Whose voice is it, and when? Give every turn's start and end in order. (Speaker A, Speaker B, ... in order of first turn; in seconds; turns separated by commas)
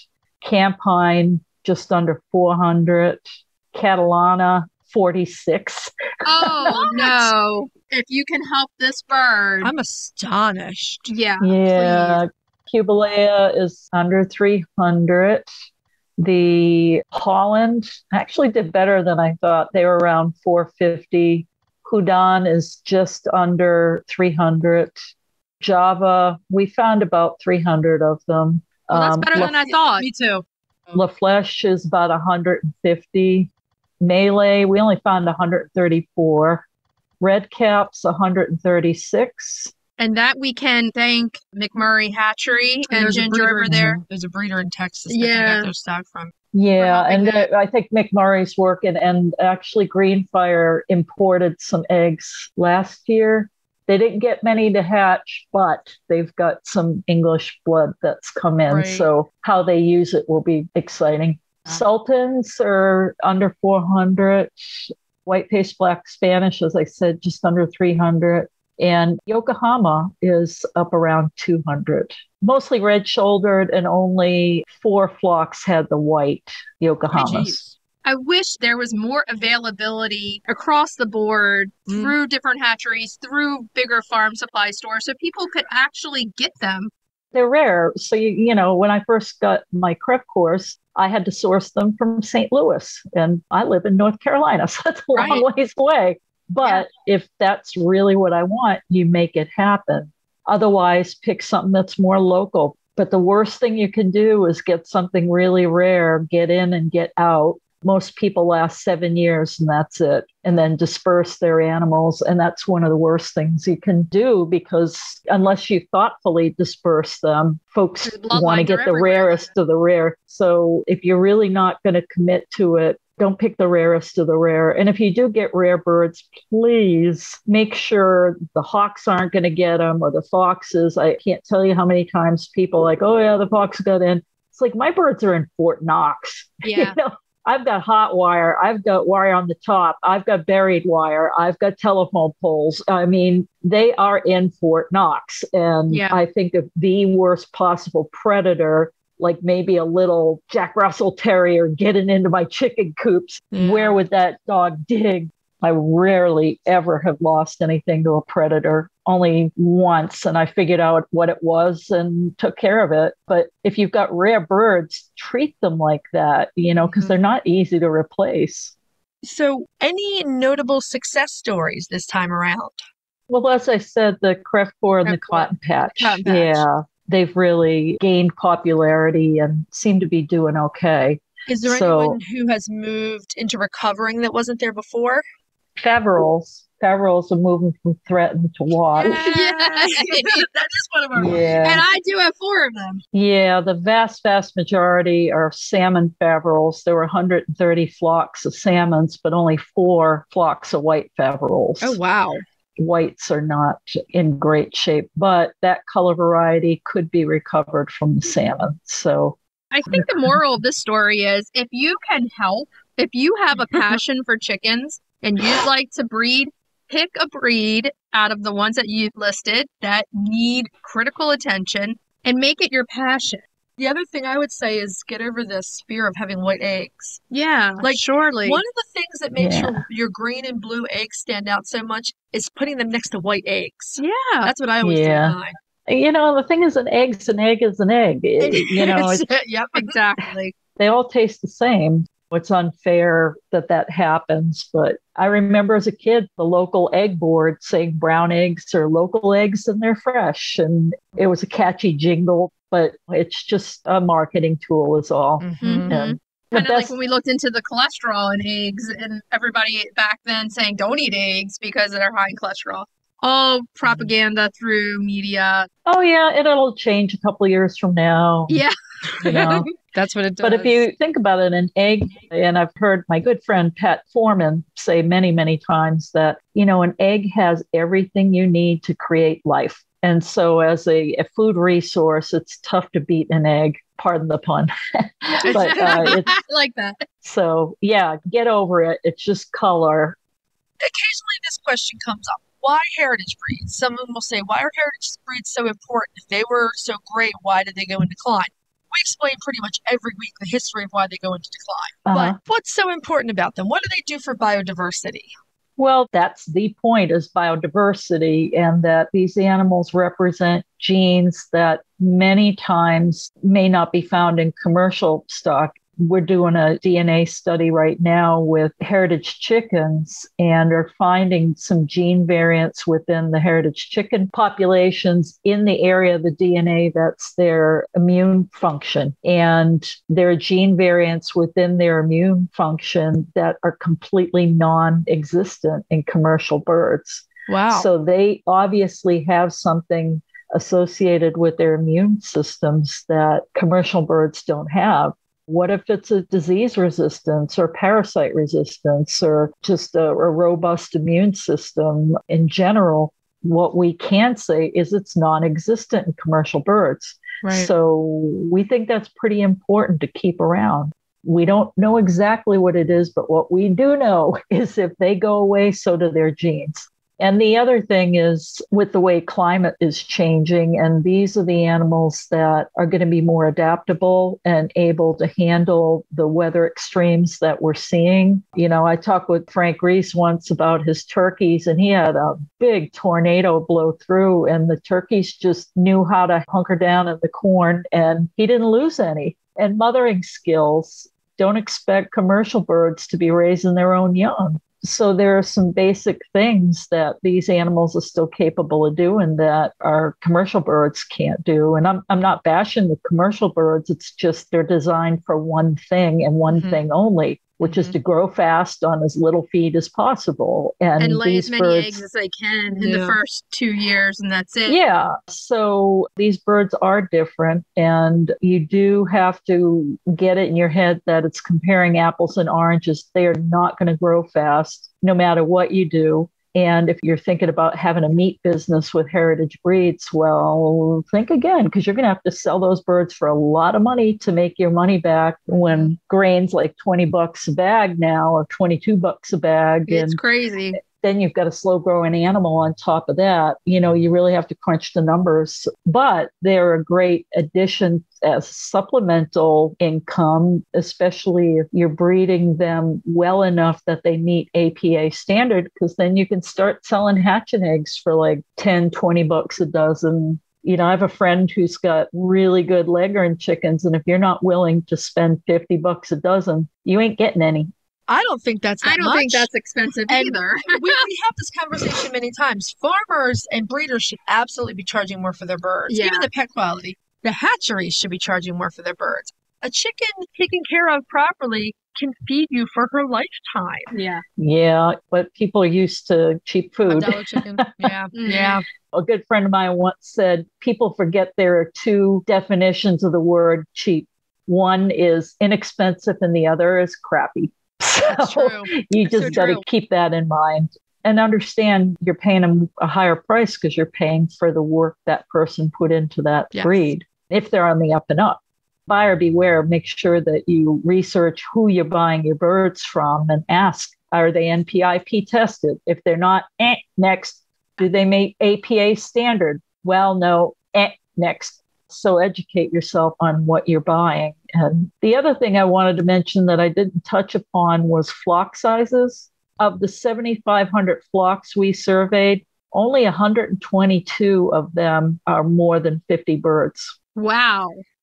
Speaker A: 0.4-7.3, Speaker B: 6.2-9.7, Speaker C: 9.6-11.0, Speaker B: 11.1-12.2, Speaker A: 11.4-15.5, Speaker A: 16.2-25.0, Speaker A: 25.6-29.6, Speaker B: 28.9-30.1, Speaker C: 29.3-30.4, Speaker A: 30.9-33.5, Speaker A: 34.0-36.6, Speaker A: 37.2-39.7, Speaker B: 40.0-44.0, Speaker C: 42.9-46.3, Speaker B: 45.1-45.7, Speaker A: 46.5-77.6, Speaker B: 46.8-47.5, Speaker C: 58.7-59.1, Speaker C: 77.1-77.7, Speaker B: 78.0-86.9, Speaker C: 81.9-82.1, Speaker A: 87.3-168.7, Speaker B: 95.1-95.4, Speaker B: 118.0-119.5, Speaker B: 136.6-137.0, Speaker B: 145.9-146.2, Speaker C: 153.5-154.0, Speaker C: 166.8-167.1, Speaker C: 169.2-172.8, Speaker A: 173.3-182.2, Speaker B: 175.0-175.5, Speaker B: 176.0-176.2, Speaker C: 176.2-176.6, Speaker C: 181.5-185.2, Speaker A: 185.8-189.2, Speaker C: 188.9-191.7, Speaker B: 189.1-190.4, Speaker A: 191.1-191.8, Speaker B: 191.6-193.0, Speaker A: 193.1-202.0, Speaker C: 201.8-202.4, Speaker A: 202.8-209.4, Speaker B: 209.7-223.4, Speaker C: 223.8-227.2, Speaker B: 227.3-228.6, Speaker C: 227.8-235.6, Speaker A: 229.3-229.8, Speaker B: 234.0-234.5, Speaker A: 234.8-239.2, Speaker C: 238.4-240.0, Speaker B: 239.7-240.5, Speaker A: 240.8-256.9, Speaker C: 255.4-255.9, Speaker B: 255.6-265.7, Speaker A: 265.9-268.6, Speaker B: 268.5-269.6, Speaker C: 269.2-270.8, Speaker A: 269.2-269.7, Speaker A: 270.4-286.3, Speaker B: 285.4-287.0, Speaker C: 285.5-286.2, Speaker A: 287.2-290.2, Speaker C: 290.8-305.3, Speaker A: 302.1-302.4, Speaker A: 305.8-412.0, Speaker C: 337.5-337.9, Speaker C: 406.5-406.8, Speaker C: 407.6-407.9, Speaker B: 411.0-414.8, Speaker C: 412.8-413.2, Speaker A: 414.7-440.2, Speaker B: 435.5-435.9, Speaker B: 439.9-440.8, Speaker A: 440.8-467.7, Speaker C: 468.1-469.5, Speaker B: 468.8-471.1, Speaker C: 470.1-483.9, Speaker B: 475.9-476.3, Speaker B: 483.9-484.2, Speaker A: 484.4-487.9, Speaker C: 486.9-488.6, Speaker B: 488.1-488.5, Speaker A: 488.9-537.0, Speaker C: 498.0-499.6, Speaker C: 506.5-506.9, Speaker B: 537.1-537.8